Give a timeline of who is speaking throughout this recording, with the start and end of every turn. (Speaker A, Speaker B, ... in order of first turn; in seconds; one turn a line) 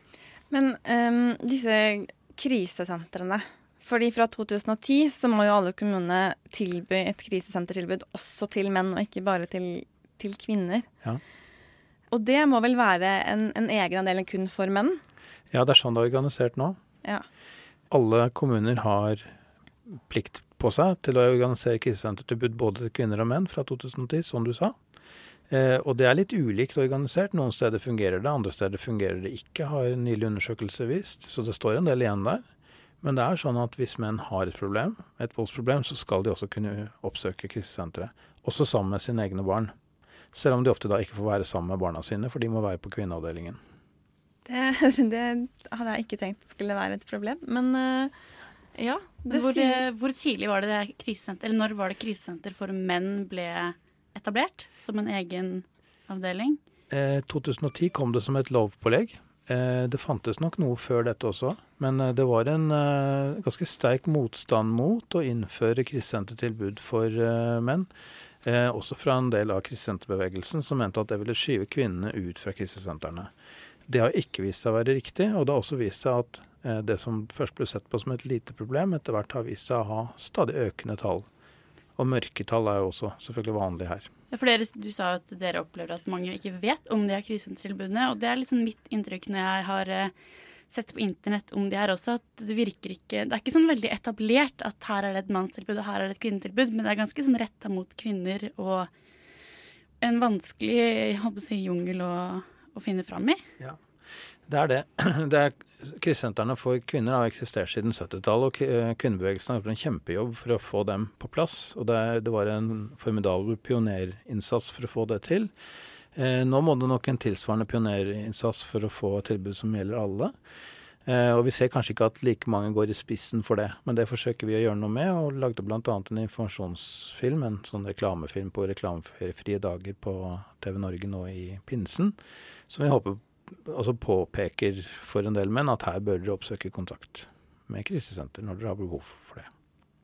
Speaker A: 0.5-10.9
Speaker A: 12.1-15.0
Speaker B: 15.5-16.8
Speaker B: 17.9-19.3
Speaker B: 19.9-24.8
Speaker B: 25.5-32.5
Speaker B: 33.0-39.7
Speaker B: 40.3-43.6
Speaker A: 44.5-48.1
Speaker A: 48.8-49.8
Speaker C: 49.3-56.6
Speaker B: 56.9-67.9
Speaker B: 68.4-73.3
Speaker B: 73.9-81.3
Speaker B: 82.0-84.1
Speaker C: 84.3-90.1
Speaker C: 90.7-98.9
Speaker C: 100.0-103.4
Speaker B: 104.5-115.5
Speaker B: 116.2-120.3
Speaker B: 121.1-132.2
Speaker B: 132.7-139.5